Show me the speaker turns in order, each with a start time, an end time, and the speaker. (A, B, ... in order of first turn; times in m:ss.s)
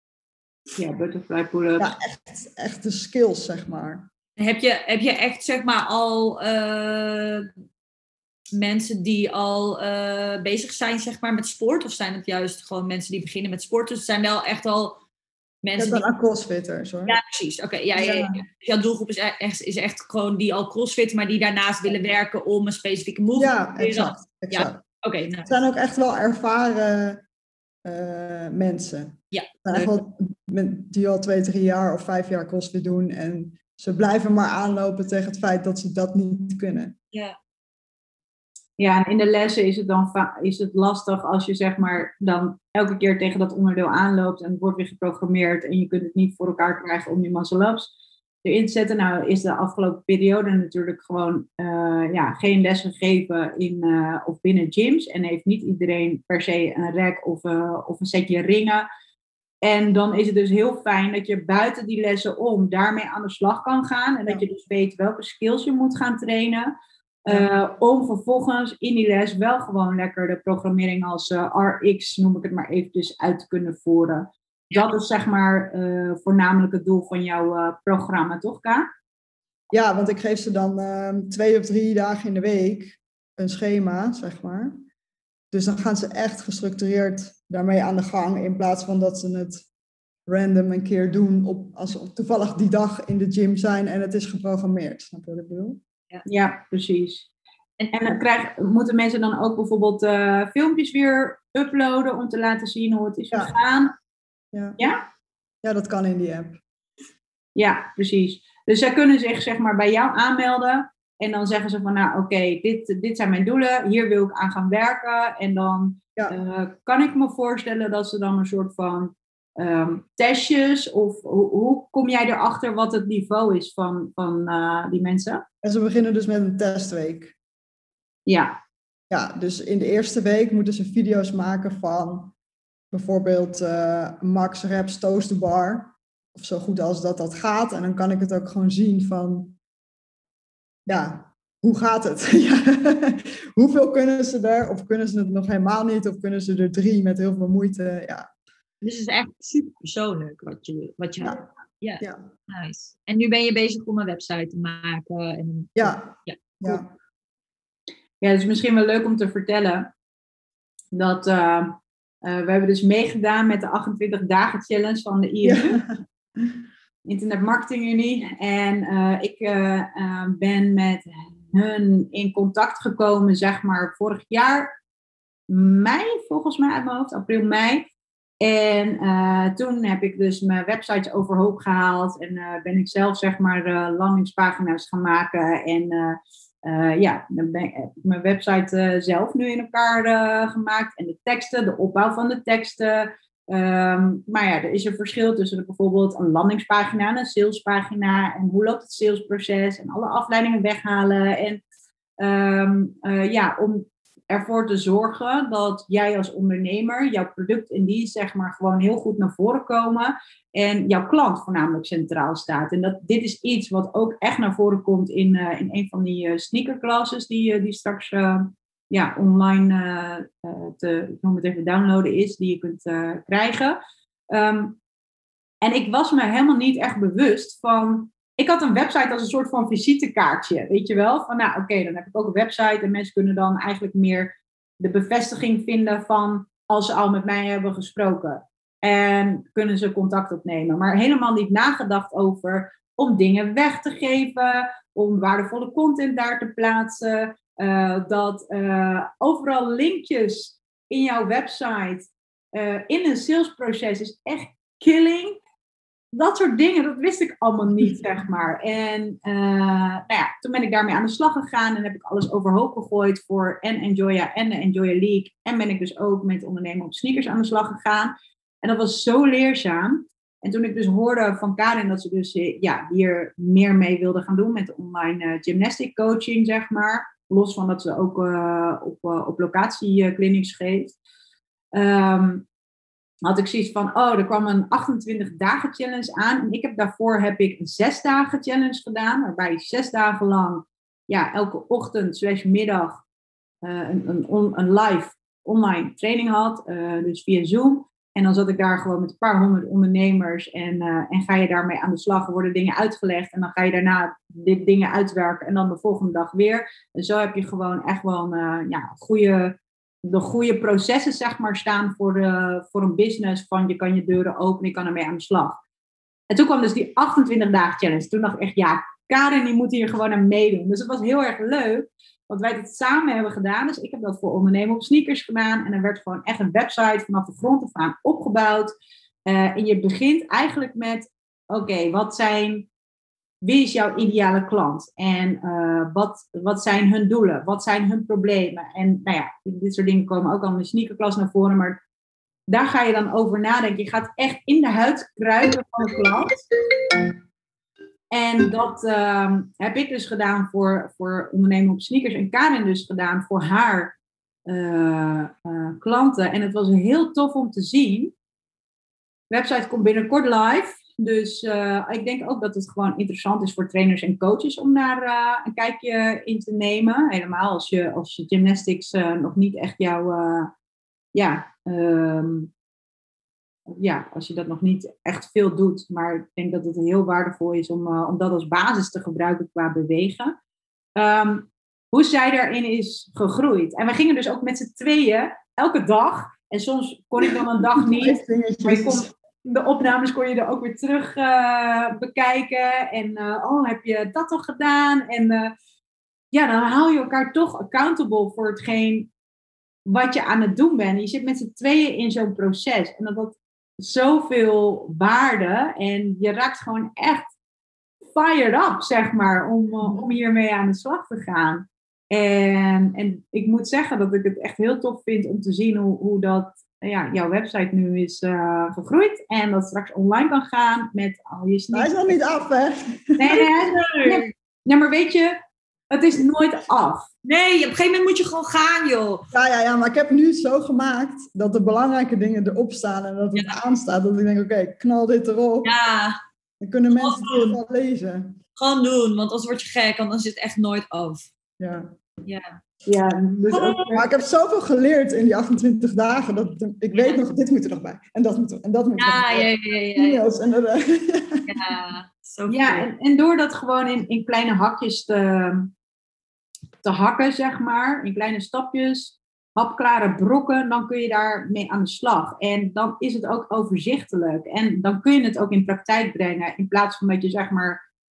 0:00.8-0:01.9 A
0:01.8-0:04.1 B
0:04.4-0:07.5 C
0:08.5-0:15.0 C
0:15.6-0:16.1 C
0:15.8-0:17.2 B
0:17.1-0:25.5 C
0:17.9-0:18.4 B
0:23.4-0:24.8 B
0:25.4-0:27.2 B
0:27.8-0:36.9 B
0:29.3-0:29.9 C
0:38.8-0:47.9 A
0:48.4-0:58.9 A
0:59.6-1:06.7 A
1:07.2-1:18.9 A
1:19.7-1:24.9 B
1:25.5-1:29.7 B
1:30.3-1:35.8 B
1:36.2-1:37.3 A
1:37.9-1:43.9 A
1:44.8-1:45.0 A
1:45.6-1:46.6 B
1:47.6-2:05.4 A
2:05.6-2:07.4 B
2:08.2-2:08.6 A
2:09.1-2:12.3 B
2:12.9-2:19.6 B
2:20.9-2:28.3 B
2:28.8-2:36.8 C
2:32.0-2:32.2 B
2:35.8-2:36.9 B
2:38.2-2:39.9 A
2:40.9-2:45.8 A
2:45.4-2:46.5 B
2:47.0-2:54.7 A
2:55.5-2:57.9 A
2:58.4-3:21.6 A
3:22.2-3:43.8 A
3:44.3-3:44.8 A
3:45.6-4:15.4 A
4:16.1-4:41.0 A
4:41.7-4:42.4 A
4:43.2-4:53.0 A
4:53.6-5:15.6 A
5:16.3-5:28.7 A
5:29.2-5:32.7 A
5:33.4-5:41.8 A
5:42.5-5:46.5 A
5:48.1-5:58.1 A
5:59.3-6:10.5 A
6:11.1-6:12.5 A
6:13.7-6:20.4 A
6:21.0-6:35.5 A
6:27.8-6:29.1 B
6:36.3-6:39.1 A
6:39.8-6:47.3 A
6:48.1-7:02.0 A
7:01.7-7:03.4 B
7:03.2-7:05.4 A
7:03.4-7:04.3 C
7:05.9-7:07.1 A
7:07.2-7:09.2 C
7:09.3-7:15.7 B
7:15.6-7:16.2 C
7:16.6-7:18.4 B
7:16.9-7:17.6 C
7:18.6-7:21.2 C
7:21.6-7:22.0 B
7:22.2-7:22.6 C
7:22.8-7:24.1 A
7:23.5-7:23.9 C
7:23.9-7:31.6 B
7:26.9-7:27.2 C
7:29.0-7:30.2 C
7:31.5-7:32.9 C
7:32.5-7:35.7 A
7:36.8-7:47.8 A